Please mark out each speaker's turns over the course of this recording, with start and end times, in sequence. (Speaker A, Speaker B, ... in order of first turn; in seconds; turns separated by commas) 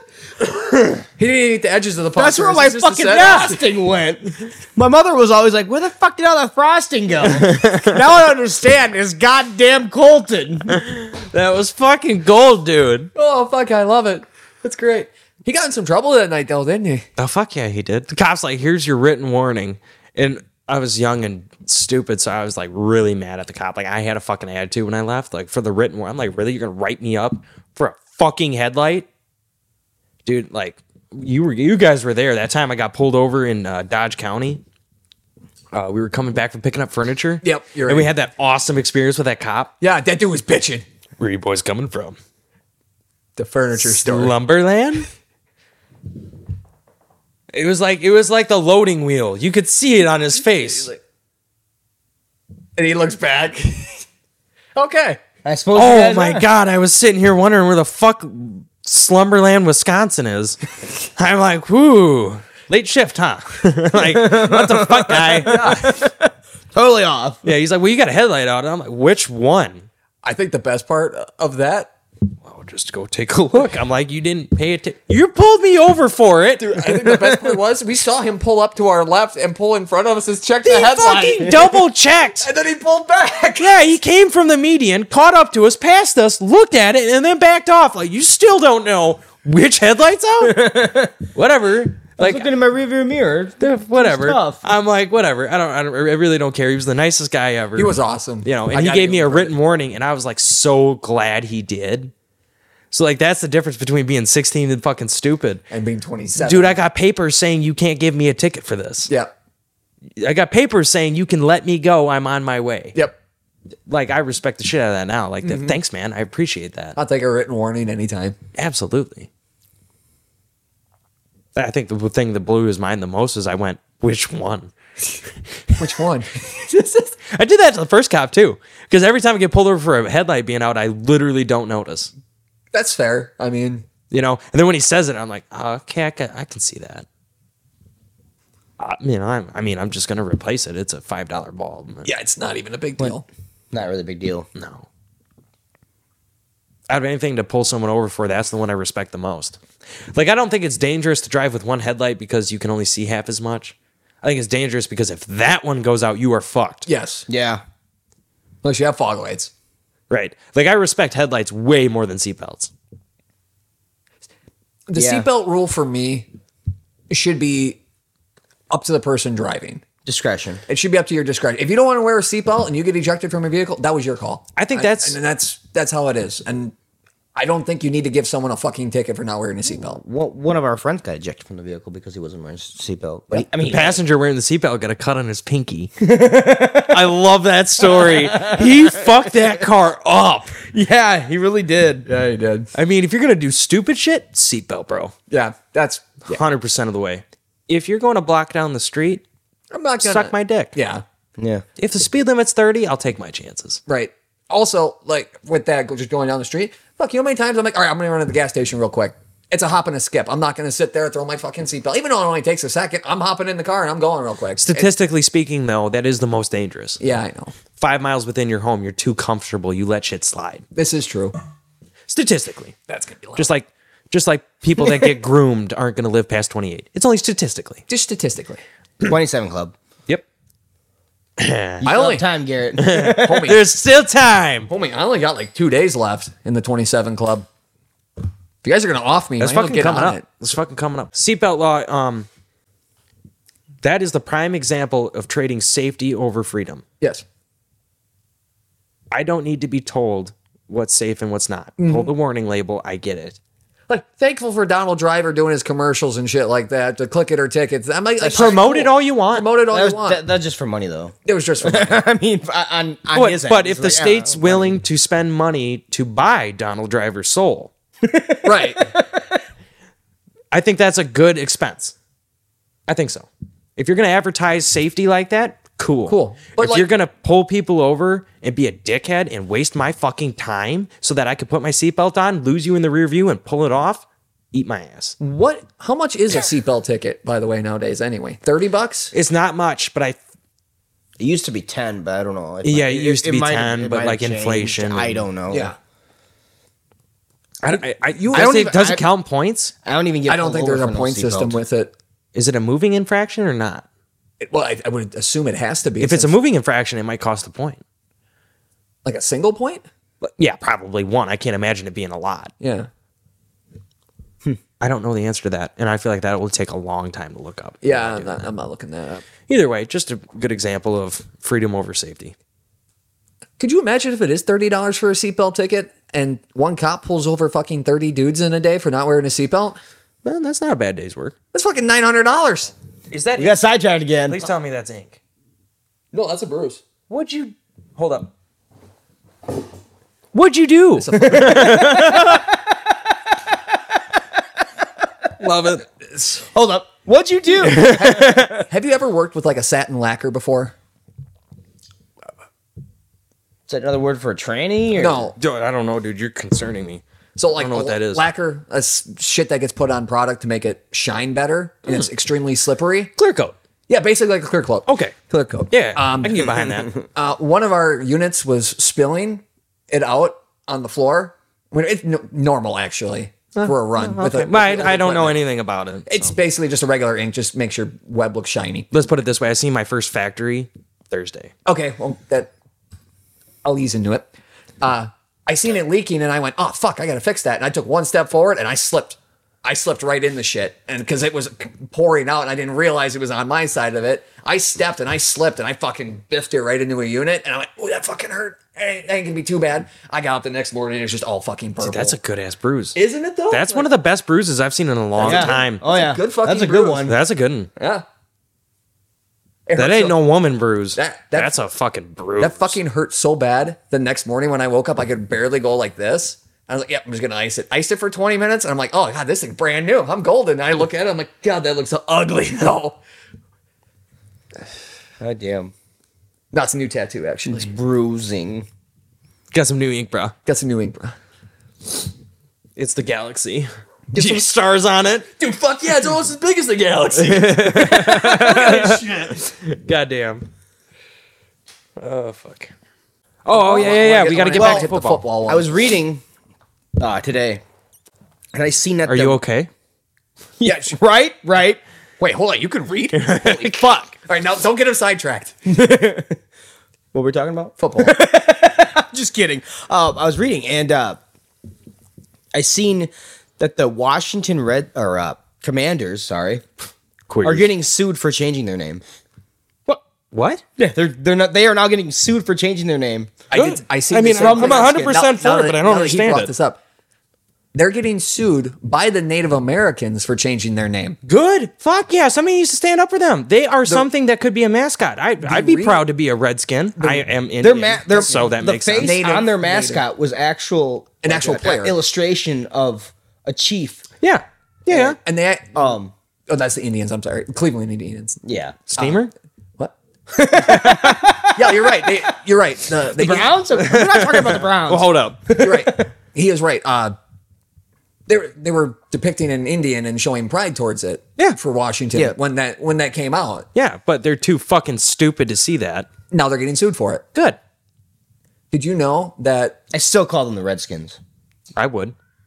Speaker A: 1.2-3.6, Speaker B: 2.2-10.8, Speaker C: 7.4-8.0, Speaker C: 10.7-13.1, Speaker A: 13.2-17.1, Speaker C: 17.2-29.1, Speaker C: 30.2-34.6, Speaker C: 35.7-39.7, Speaker A: 37.4-38.1, Speaker A: 39.8-40.9, Speaker C: 41.2-42.2, Speaker A: 43.4-44.4, Speaker C: 43.8-45.1, Speaker C: 47.5-50.9, Speaker A: 52.8-54.0, Speaker A: 54.8-55.2, Speaker B: 55.5-56.5, Speaker C: 55.7-65.8, Speaker B: 64.0-67.4, Speaker A: 65.4-66.0, Speaker C: 67.4-69.9, Speaker A: 70.2-71.9, Speaker C: 72.4-76.8, Speaker A: 76.6-81.8, Speaker B: 77.0-77.4, Speaker C: 80.6-82.5, Speaker A: 82.4-83.8, Speaker C: 83.5-90.7, Speaker B: 90.4-91.2, Speaker C: 91.3-92.5, Speaker B: 92.2-94.6, Speaker C: 93.6-102.1, Speaker A: 97.8-99.5, Speaker C: 102.9-105.6, Speaker A: 105.7-106.8, Speaker C: 106.4-109.1, Speaker C: 110.2-113.0, Speaker C: 113.9-117.0, Speaker A: 115.4-115.8, Speaker A: 117.0-118.4, Speaker C: 118.6-119.3, Speaker C: 121.6-124.7, Speaker A: 125.8-127.1, Speaker C: 127.3-132.1, Speaker A: 132.7-133.9, Speaker C: 134.1-137.1, Speaker C: 138.8-142.1, Speaker A: 142.1-143.2, Speaker B: 143.7-144.5, Speaker C: 144.6-144.9, Speaker C: 146.9-149.6, Speaker C: 150.1-156.9, Speaker A: 156.9-157.3, Speaker B: 157.3-157.6, Speaker A: 158.6-159.5, Speaker C: 160.1-162.7, Speaker A: 164.9-166.3, Speaker B: 165.0-165.3, Speaker A: 167.1-167.8, Speaker A: 168.7-169.8, Speaker B: 170.1-170.6, Speaker A: 170.7-176.8, Speaker C: 174.6-175.2, Speaker A: 177.3-180.0, Speaker B: 179.8-184.0, Speaker C: 183.7-185.9, Speaker B: 186.0-187.0, Speaker C: 186.8-190.6, Speaker B: 187.8-188.8, Speaker B: 190.7-192.1, Speaker A: 192.1-192.7, Speaker C: 192.8-195.1, Speaker A: 195.3-196.4, Speaker C: 196.3-199.2, Speaker A: 199.7-201.0, Speaker C: 200.0-200.8, Speaker B: 201.4-201.7, Speaker C: 201.8-203.8, Speaker A: 203.9-214.9, Speaker C: 214.6-217.0, Speaker A: 217.0-217.6, Speaker C: 217.8-220.7, Speaker A: 220.8-221.3, Speaker C: 222.1-222.8, Speaker A: 222.9-223.5, Speaker C: 223.4-227.8, Speaker A: 227.9-228.6, Speaker B: 229.0-229.7, Speaker C: 231.4-231.8, Speaker B: 231.8-233.6, Speaker A: 231.8-232.2, Speaker C: 232.8-234.7, Speaker A: 233.1-233.6, Speaker A: 234.7-237.5, Speaker A: 238.6-240.2, Speaker C: 239.4-242.3, Speaker C: 243.8-246.8, Speaker A: 247.0-247.2, Speaker C: 249.1-253.4, Speaker A: 251.8-252.1, Speaker A: 253.9-260.2, Speaker C: 258.2-259.5, Speaker B: 259.7-264.8, Speaker A: 261.2-262.1, Speaker C: 263.1-267.7, Speaker B: 268.0-269.3, Speaker A: 268.4-268.9, Speaker C: 270.5-271.9, Speaker C: 272.9-285.2, Speaker A: 276.1-276.9, Speaker A: 285.2-289.1, Speaker C: 289.1-290.2, Speaker B: 291.2-295.7, Speaker C: 292.6-295.2, Speaker A: 295.5-295.8, Speaker C: 297.6-299.7, Speaker A: 297.7-298.8, Speaker B: 298.4-299.0, Speaker B: 299.9-301.6, Speaker A: 300.3-301.9, Speaker C: 302.3-303.9, Speaker A: 304.4-306.4, Speaker C: 306.0-307.8, Speaker A: 309.1-309.9, Speaker C: 310.2-312.5, Speaker A: 312.6-312.9, Speaker C: 314.8-318.4, Speaker A: 317.8-319.2, Speaker C: 319.5-322.3, Speaker A: 323.6-329.8, Speaker C: 330.2-331.3, Speaker A: 331.5-332.7, Speaker C: 333.1-333.6, Speaker B: 333.4-334.4, Speaker C: 334.3-335.2, Speaker A: 336.1-336.8, Speaker C: 337.1-338.3, Speaker C: 340.3-342.4, Speaker A: 340.9-342.1, Speaker B: 341.1-342.6, Speaker C: 345.4-345.9, Speaker B: 346.5-348.6, Speaker C: 347.6-348.6, Speaker A: 348.0-350.8, Speaker B: 353.7-355.3, Speaker A: 354.9-355.4, Speaker C: 355.4-357.0, Speaker A: 357.4-363.1, Speaker C: 357.5-358.2, Speaker C: 363.2-363.6, Speaker A: 363.9-375.4, Speaker C: 364.9-365.2, Speaker C: 365.7-367.0, Speaker C: 373.6-376.3, Speaker A: 376.1-378.9, Speaker C: 378.9-381.5, Speaker A: 381.7-382.5, Speaker A: 383.6-384.3, Speaker A: 384.8-402.2, Speaker C: 401.8-403.0, Speaker A: 402.9-403.9, Speaker C: 403.5-405.8, Speaker A: 405.2-407.1, Speaker B: 405.2-407.2, Speaker C: 407.1-407.7, Speaker A: 407.8-408.1, Speaker A: 409.7-410.2, Speaker C: 409.8-412.8, Speaker A: 411.0-411.6, Speaker A: 412.4-423.0, Speaker B: 425.2-425.7, Speaker A: 426.5-427.7, Speaker B: 427.5-428.7, Speaker C: 429.5-430.4, Speaker A: 430.5-431.1, Speaker C: 432.8-435.3, Speaker A: 434.1-434.5, Speaker A: 435.4-437.5, Speaker C: 437.1-440.5, Speaker B: 437.4-438.8, Speaker A: 438.2-439.4, Speaker C: 442.0-442.7, Speaker C: 443.4-445.2, Speaker A: 443.5-445.7, Speaker B: 444.6-444.9, Speaker B: 445.5-446.2, Speaker B: 447.0-447.6, Speaker B: 448.5-449.4, Speaker C: 449.1-449.7, Speaker B: 450.6-451.8, Speaker A: 450.6-450.9, Speaker A: 452.2-455.6, Speaker C: 453.1-454.1, Speaker B: 455.7-456.4, Speaker B: 457.1-461.2, Speaker A: 457.8-458.2, Speaker B: 462.5-466.7, Speaker C: 467.3-467.7, Speaker B: 467.4-469.0, Speaker C: 470.3-470.6, Speaker B: 470.8-473.4, Speaker A: 473.5-476.8, Speaker C: 473.5-476.5, Speaker B: 474.3-475.2, Speaker A: 477.7-481.2, Speaker C: 481.3-489.2, Speaker A: 485.4-486.0, Speaker A: 487.0-487.3, Speaker B: 487.6-494.0, Speaker A: 488.9-490.0, Speaker A: 491.2-491.9, Speaker C: 494.2-495.2, Speaker B: 494.9-495.2, Speaker A: 494.9-495.8, Speaker B: 495.7-496.1, Speaker A: 496.5-498.4, Speaker B: 498.4-498.8, Speaker C: 498.9-499.3, Speaker A: 499.0-499.2, Speaker B: 500.3-502.0, Speaker A: 501.5-503.6, Speaker B: 503.1-506.1, Speaker C: 503.8-505.5, Speaker A: 505.6-507.1, Speaker A: 508.3-513.7, Speaker C: 513.8-516.1, Speaker A: 516.3-517.3, Speaker A: 518.7-519.8, Speaker B: 519.9-521.2, Speaker C: 521.8-522.1